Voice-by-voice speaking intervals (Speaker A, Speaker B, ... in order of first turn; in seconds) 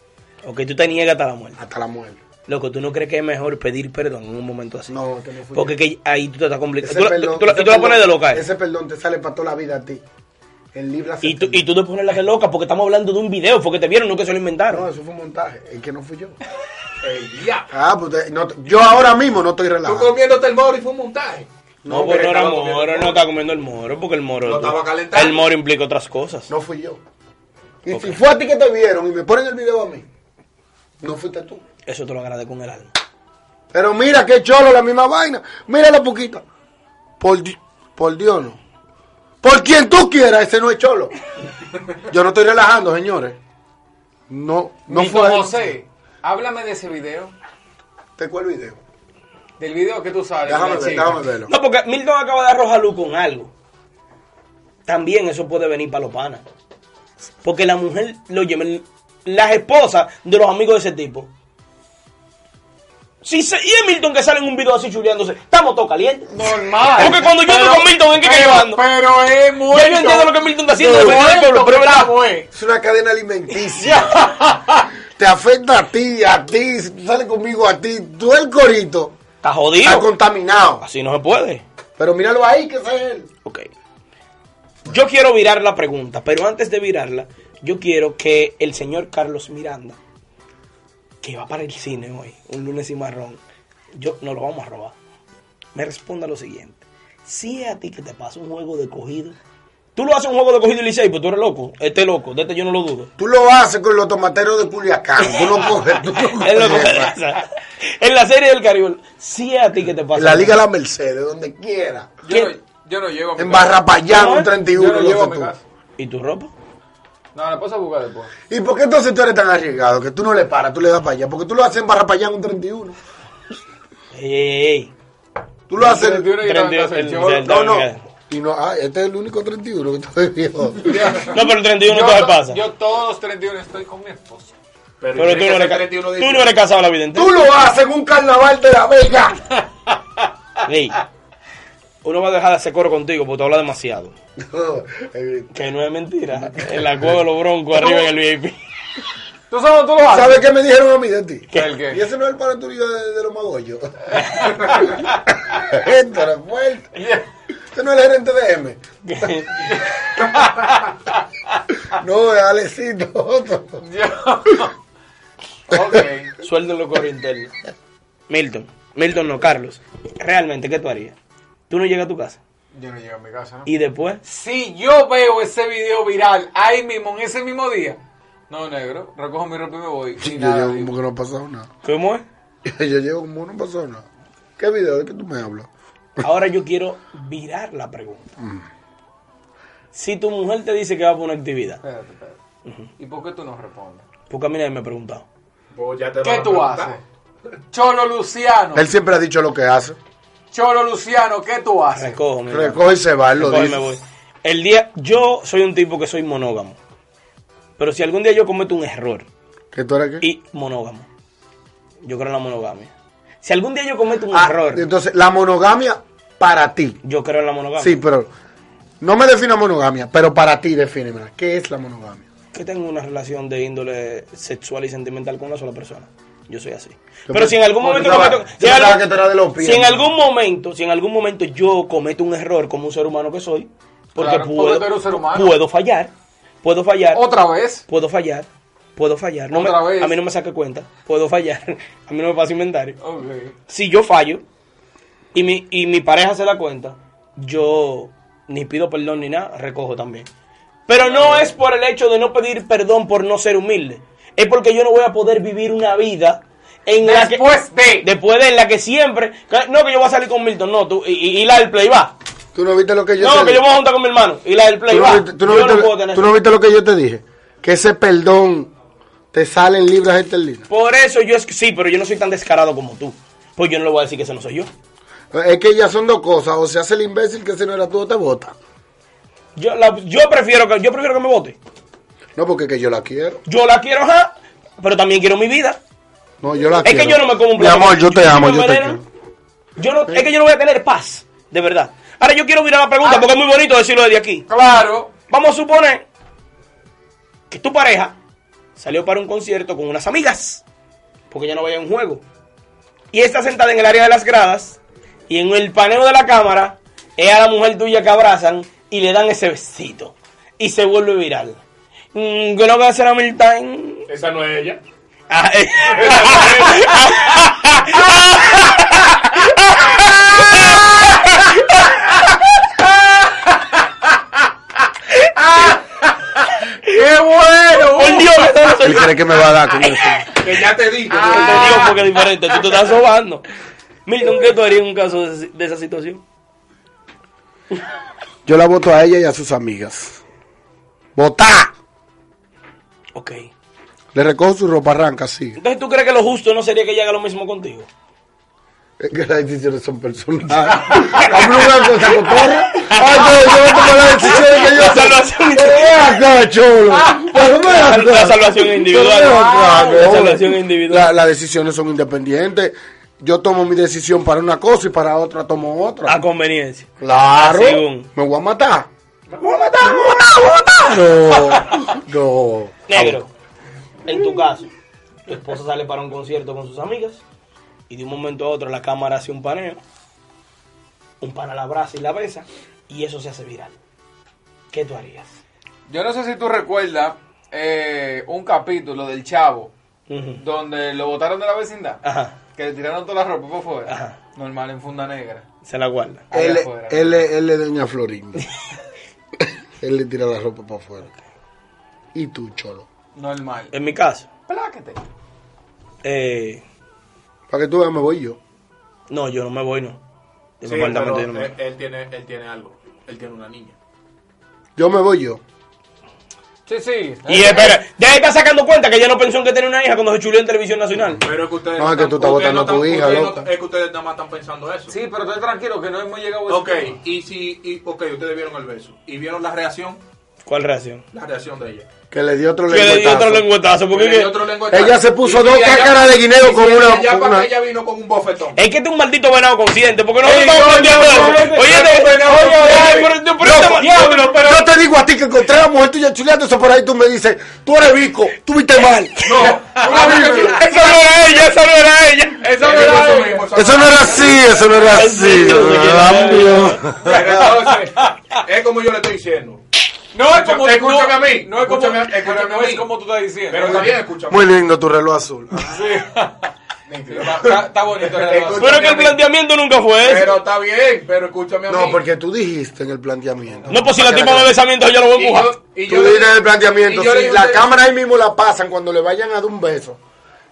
Speaker A: 0.4-1.6, 2.5-4.9, 5.5-8.4, 11.2-14.8, 21.9-26.5, 27.9-28.2, 31.9-32.9, 51.5-53.5, 54.9-56.4, 57.4-61.3, 63.2-66.3, 67.0-68.8, 69.7-72.1, 79.4-80.1, 80.8-81.6, 84.8-90.0, 91.2-93.4, 93.9-94.9, 95.7-99.3, 100.0-103.1, 106.4-110.6, 112.3-112.5, 114.1-114.5, 116.0-116.5, 124.1-124.9, 126.4-128.0, 131.2-132.6, 135.2-137.3, 140.6-141.0, 142.0-144.1, 145.5-148.6, 159.0-159.6, 166.4-167.5, 168.3-171.2, 171.7-172.4, 173.7-174.2, 181.8-182.2, 186.2-188.2, 189.9-191.8, 194.3-195.2, 201.9-206.8, 207.8-209.2, 210.2-211.1, 212.0-212.9, 213.4-214.8, 217.0-218.0, 222.5-229.1, 229.6-236.1, 236.6-237.2, 237.9-243.0, 243.7-244.4, 245.3-250.3, 250.9-262.1, 263.2-266.3, 270.7-274.7, 279.6-281.6, 283.5-285.8, 286.8-289.0, 289.8-294.5, 295.3-296.0, 297.5-298.1, 298.8-300.6, 301.3-302.2, 303.1-304.8, 305.3-311.6, 312.1-314.1, 315.3-321.9, 327.8-330.1, 331.2-333.4, 334.1-336.2, 343.1-343.5, 345.6-347.9, 350.9-351.3, 352.7-356.2, 357.3-361.1, 366.1-368.1, 369.4-370.9, 372.9-373.3, 374.0-374.7, 375.3-377.2, 377.9-379.8, 381.2-383.7, 384.7-385.3, 390.1-390.4, 392.0-392.4, 393.9-394.2, 395.6-396.3, 403.7-404.3, 406.0-406.6, 409.1-410.0, 410.6-411.5, 417.3-421.2, 430.4-431.0, 432.7-434.3, 438.6-444.0, 450.5-452.4, 454.9-456.8, 468.6-470.3, 473.7-475.6
Speaker B: 1.6-2.2, 4.9-5.8, 6.8-10.0, 10.7-11.6, 14.7-16.4, 17.7-20.1, 21.8-22.3, 26.5-27.0, 27.8-30.1, 31.0-31.6, 33.7-36.4, 37.2-38.6, 39.4-41.1, 42.0-43.4, 44.3-45.6, 48.2-48.8, 50.4-51.5, 70.8-71.2, 72.5-74.2, 75.1-79.2, 79.8-80.8, 82.0-83.3, 103.2-107.1, 110.1-112.1, 113.3-115.5, 118.5-123.0, 125.7-126.4, 127.4-131.1, 137.1-139.5, 144.4-145.5, 146.4-147.1, 150.1-156.9, 157.7-159.4, 161.9-163.8, 180.2-181.7, 182.6-184.0, 184.6-185.7, 188.4-188.7, 198.7-200.0, 202.5-203.8, 209.7-210.2, 214.3-217.0, 217.8-218.3, 219.0-222.2, 227.3-230.1, 262.5-263.6, 264.9-268.7, 269.3-270.6, 275.3-278.5, 282.4-283.4, 286.4-289.0, 328.8-330.3, 338.4-340.2, 341.1-341.7, 344.1-345.6, 349.0-366.2, 367.0-368.9, 370.7-373.2, 396.3-398.5, 399.4-401.1, 402.1-402.9, 407.5-408.4, 414.8-415.4, 421.7-423.4, 432.1-433.5, 434.7-437.5, 444.3-450.3, 453.5-457.3, 464.3-465.9, 468.2-468.9, 471.7-474.6, 475.8-480.0
Speaker C: 17.0-17.7, 19.8-21.5, 22.0-23.2, 24.4-25.4, 135.0-136.5, 195.7-196.9, 314.1-314.8, 315.9-317.1, 330.4-331.9, 410.6-413.7, 421.2-424.9, 426.5-430.0, 431.1-431.9, 433.9-438.6, 440.2-444.6, 449.2-450.6, 452.6-454.7, 457.0-459.6, 460.2-462.9, 463.5-464.5, 466.9-468.6, 470.0-472.0, 475.1-477.7
Speaker D: 44.9-47.3, 49.6-51.2, 66.3-72.5, 73.7-74.9, 112.2-113.8, 114.7-115.6, 117.3-118.3, 125.8-127.5, 130.8-134.5, 147.8-148.1, 149.5-150.4, 151.5-152.0, 154.2-155.0, 156.9-157.2, 160.2-161.2, 163.8-164.7, 165.7-166.3, 172.7-173.7, 174.2-178.0, 178.5-180.9, 191.8-192.4, 193.0-194.0, 196.2-197.0, 197.7-198.9, 200.5-202.2, 234.2-235.6, 237.1-237.8, 239.5-240.2, 243.0-243.5, 251.0-251.5, 257.0-258.1, 293.0-293.3, 294.5-295.1, 325.3-328.7, 331.1-332.6, 385.9-389.7, 390.4-392.0, 392.5-395.4, 396.3-397.2, 403.1-403.7, 404.5-405.0, 416.7-417.8, 424.9-426.9, 440.2-443.1, 443.6-444.6, 449.4-450.6, 452.4-454.9, 457.0-458.1, 460.1-463.9, 465.6-466.5, 467.1-469.2